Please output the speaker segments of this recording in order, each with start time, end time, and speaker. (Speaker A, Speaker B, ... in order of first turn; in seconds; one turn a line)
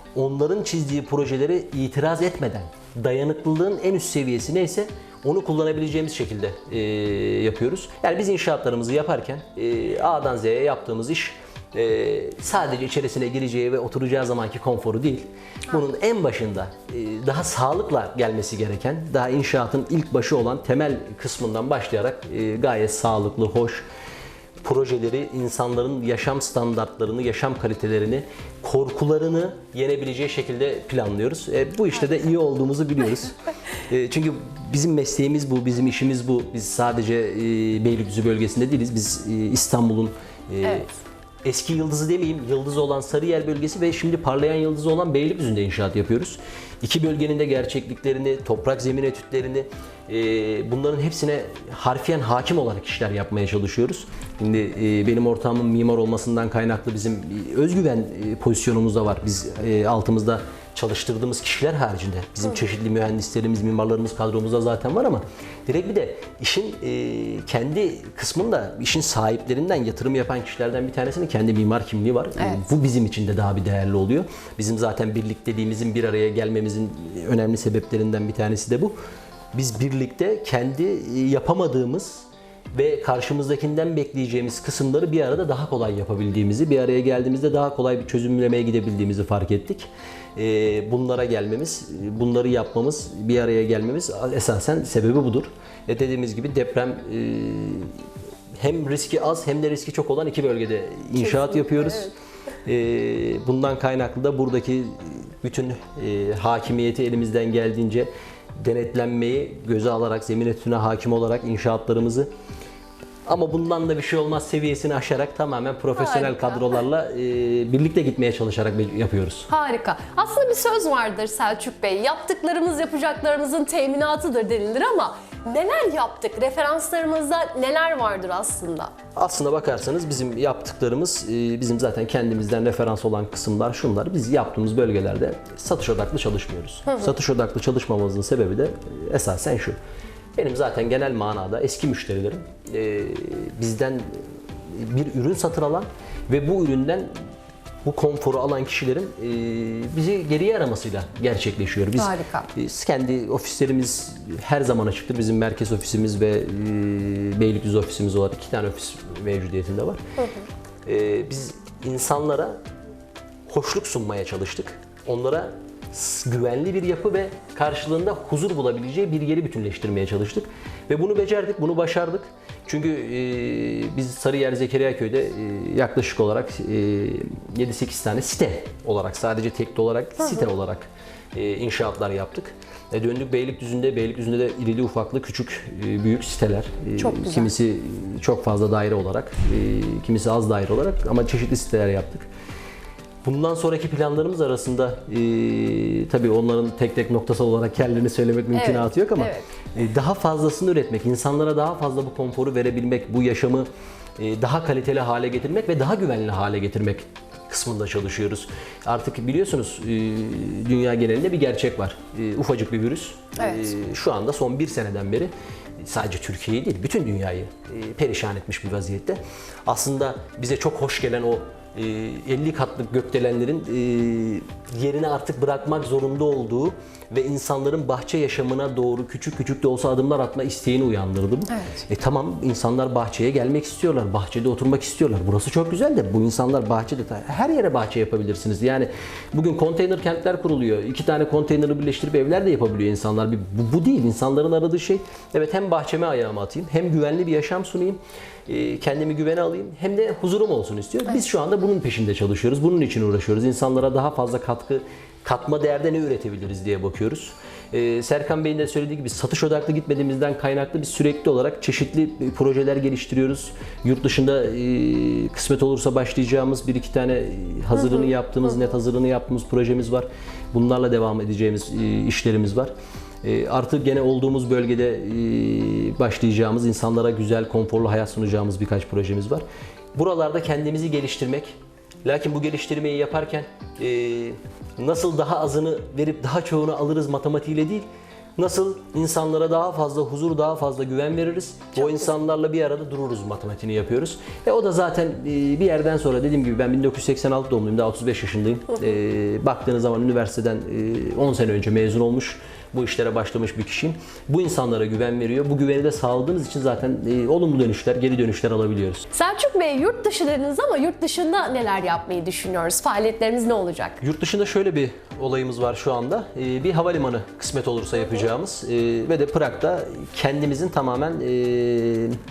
Speaker A: 0.1-23.8
Speaker A: 24.6-33.3
Speaker A: 33.9-40.9
Speaker A: 41.4-79.0
Speaker A: 79.5-98.0
Speaker A: 98.6-102.1
Speaker B: 101.2-102.1
Speaker A: 102.6-112.3
Speaker A: 113.2-119.5
Speaker B: 116.0-116.6
Speaker B: 119.5-128.9
Speaker A: 129.1-139.8
Speaker A: 140.3-147.1
Speaker A: 147.8-160.0
Speaker B: 152.0-152.5
Speaker B: 160.2-160.4
Speaker A: 160.8-162.6
Speaker A: 163.5-192.3
Speaker B: 187.0-187.5
Speaker A: 193.2-272.7
Speaker B: 198.5-199.5
Speaker B: 231.5-231.8
Speaker A: 273.2-309.1
Speaker B: 309.1-314.0
Speaker A: 314.0-322.2